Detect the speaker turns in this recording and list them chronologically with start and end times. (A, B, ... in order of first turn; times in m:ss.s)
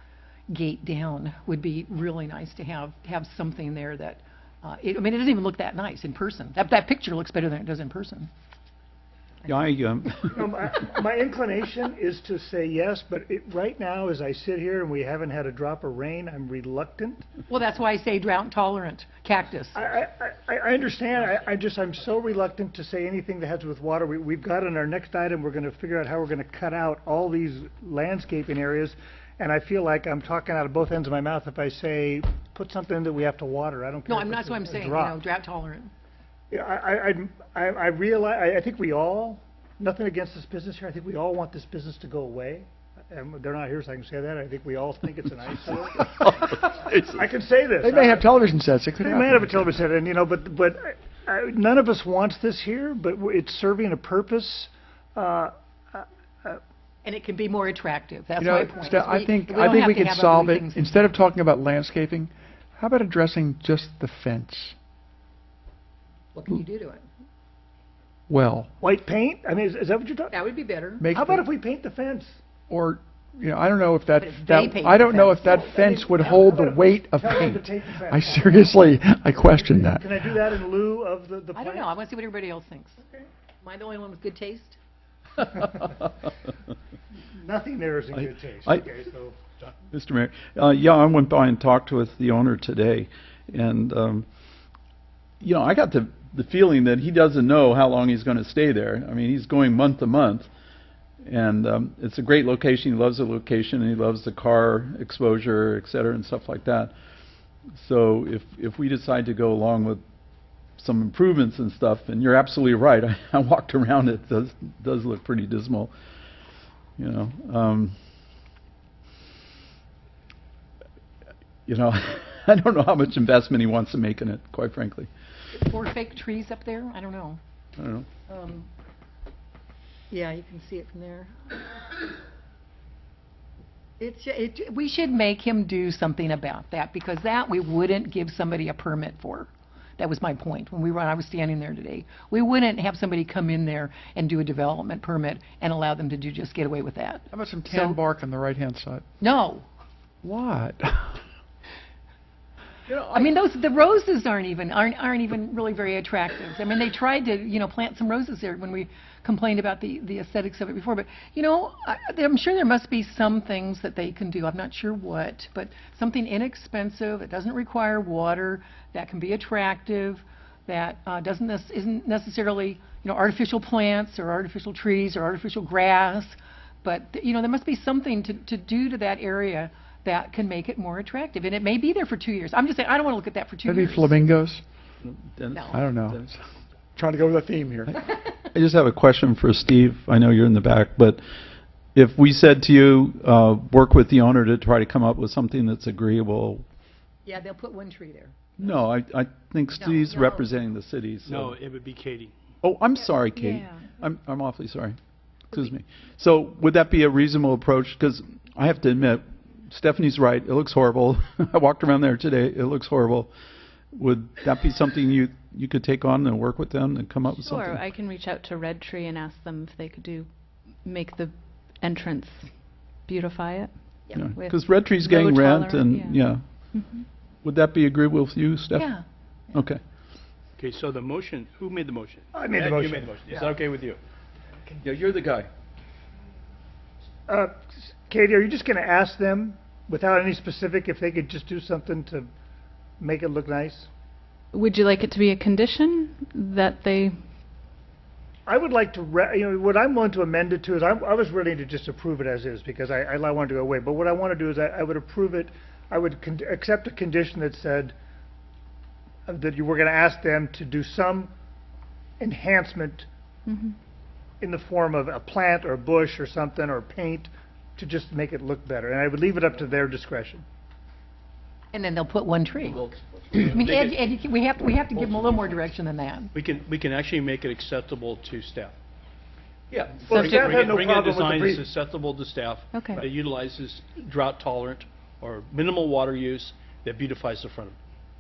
0:00.5-0:08.3 A
0:09.4-0:10.4 B
0:10.3-0:17.2 C
0:17.5-0:19.8 A
0:19.8-0:35.2 C
0:34.1-0:35.9 A
0:36.5-0:48.2 C
0:46.2-0:47.1 B
0:47.8-0:49.7 D
0:49.0-0:56.6 C
0:57.0-1:00.9 A
0:58.4-1:04.8 D
1:06.3-1:07.0 A
1:08.3-1:08.7 D
1:08.8-1:10.3 C
1:10.3-1:11.1 A
1:11.0-1:11.4 D
1:11.1-1:12.4 C
1:12.7-1:20.1 D
1:14.2-1:15.7 A
1:15.4-1:18.9 C
1:19.5-1:21.9 C
1:21.6-1:23.0 A
1:23.6-1:24.8 A
1:27.4-1:29.4 C
1:28.1-1:28.9 B
1:29.9-1:34.2 B
1:35.4-1:40.5 B
1:41.2-1:46.9 B
1:47.8-1:50.0 B
1:50.8-1:55.9 B
1:57.0-1:57.9 B
2:01.7-2:05.1 B
2:05.5-2:07.4 A
2:07.8-2:08.1 B
2:08.3-2:08.7 A
2:10.1-2:11.6 A
2:14.0-2:28.0 A
2:27.3-2:29.0 D
2:29.2-2:29.7 A
2:30.2-2:31.2 D
2:32.9-2:33.3 B
2:33.1-3:04.3 A
3:03.6-3:04.6 D
3:05.0-3:06.3 B
3:05.5-3:05.8 A
3:05.7-3:06.4 D
3:06.9-3:07.9 D
3:07.9-3:11.2 B
3:11.9-3:16.6 B
3:17.2-3:18.8 A
3:18.6-3:21.5 B
3:19.8-3:20.5 A
3:21.2-3:22.3 E
3:22.6-3:25.0 B
3:23.3-3:23.8 F
3:25.5-3:33.3 B
3:33.9-3:37.8 B
3:37.4-3:47.1 F
3:44.2-3:46.9 B
3:47.4-3:49.8 B
3:48.8-3:49.0 A
3:50.6-3:54.0 E
3:52.3-3:53.3 C
3:54.7-3:55.5 B
3:57.3-4:02.3 C
4:03.0-4:03.9 C
4:04.5-4:07.2 F
4:08.5-4:17.9 C
4:19.3-4:21.3 C
4:22.2-4:23.1 C
4:23.4-4:23.8 F
4:24.4-4:30.4 C
4:31.7-4:36.3 A
4:32.7-4:34.1 E
4:34.9-4:35.6 E
4:36.3-4:38.7 E
4:39.7-4:47.8 E
4:40.0-4:41.7 C
4:40.1-4:40.5 F
4:42.7-4:43.0 F